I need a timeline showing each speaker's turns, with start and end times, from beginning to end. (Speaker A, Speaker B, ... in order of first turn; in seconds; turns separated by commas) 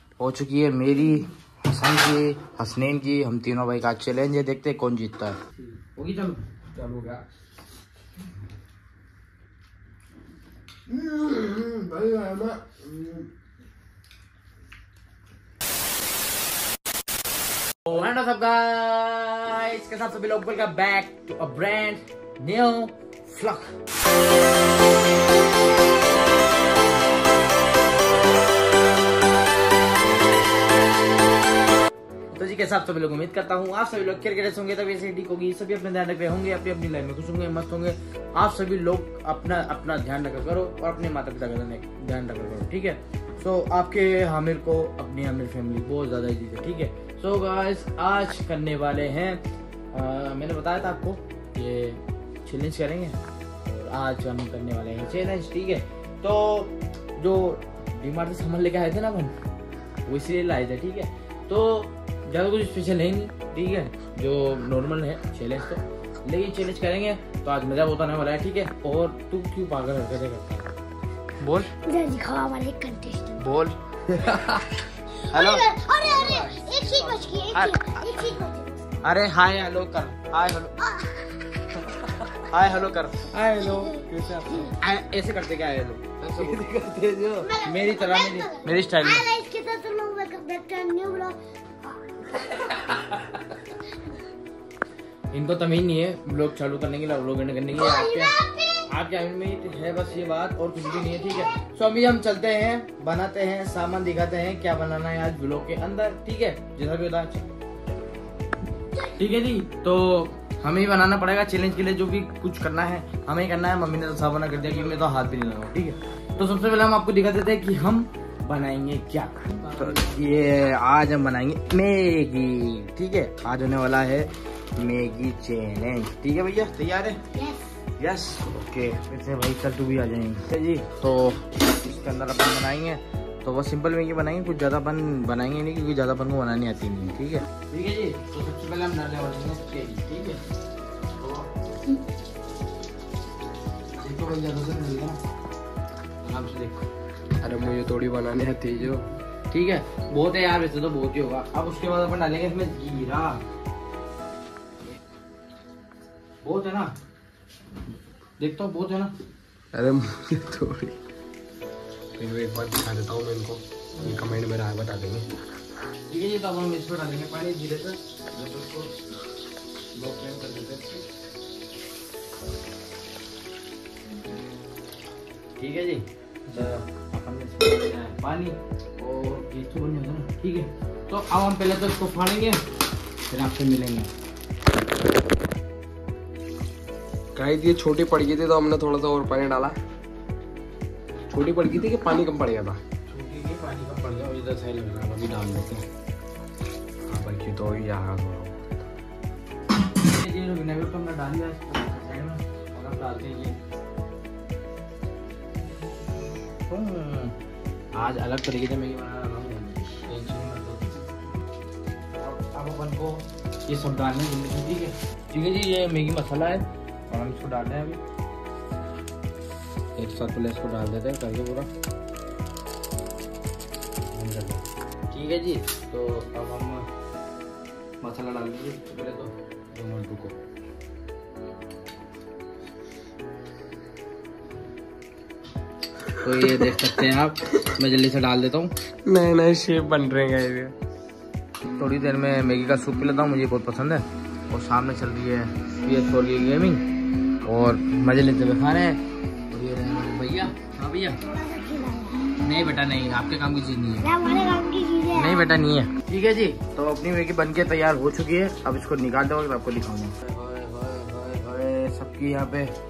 Speaker A: 0.2-6.4, Speaker B: 6.7-7.2, Speaker B: 10.9-13.3, Speaker A: 17.8-23.8, Speaker A: 32.3-49.4, Speaker A: 49.9-59.3, Speaker A: 60.0-70.7, Speaker A: 71.4-71.7, Speaker C: 71.8-73.4, Speaker A: 73.4-74.6, Speaker C: 75.3-79.0, Speaker A: 75.3-75.7, Speaker B: 76.1-77.3, Speaker A: 77.5-78.0, Speaker A: 79.0-80.8, Speaker C: 80.8-81.2, Speaker A: 82.3-89.2, Speaker C: 87.4-91.4, Speaker C: 92.2-92.8, Speaker A: 95.3-107.5, Speaker C: 97.7-98.9, Speaker C: 100.9-101.6, Speaker A: 109.0-127.2, Speaker B: 119.7-120.2, Speaker C: 127.3-127.8, Speaker A: 128.0-140.4, Speaker A: 141.2-141.5, Speaker A: 143.9-145.2, Speaker A: 146.2-146.8, Speaker B: 147.4-149.1, Speaker A: 149.5-153.4, Speaker A: 156.4-156.9, Speaker A: 158.4-159.1, Speaker B: 159.7-161.0, Speaker B: 162.2-165.3, Speaker A: 166.1-168.9, Speaker B: 169.9-171.0, Speaker A: 175.6-182.6, Speaker A: 183.3-184.1, Speaker B: 187.3-189.8, Speaker B: 191.3-192.8, Speaker A: 193.1-195.8, Speaker B: 197.1-198.6, Speaker A: 200.0-203.6, Speaker A: 206.7-207.3, Speaker A: 207.9-211.0, Speaker A: 212.1-218.0, Speaker A: 219.9-221.7, Speaker A: 224.1-224.6, Speaker A: 225.1-226.9, Speaker A: 228.0-230.3, Speaker A: 236.2-238.7, Speaker B: 239.1-240.7, Speaker A: 241.8-246.8, Speaker A: 247.4-251.2, Speaker C: 251.2-252.3, Speaker A: 252.4-254.1, Speaker C: 254.0-255.5, Speaker A: 255.1-262.7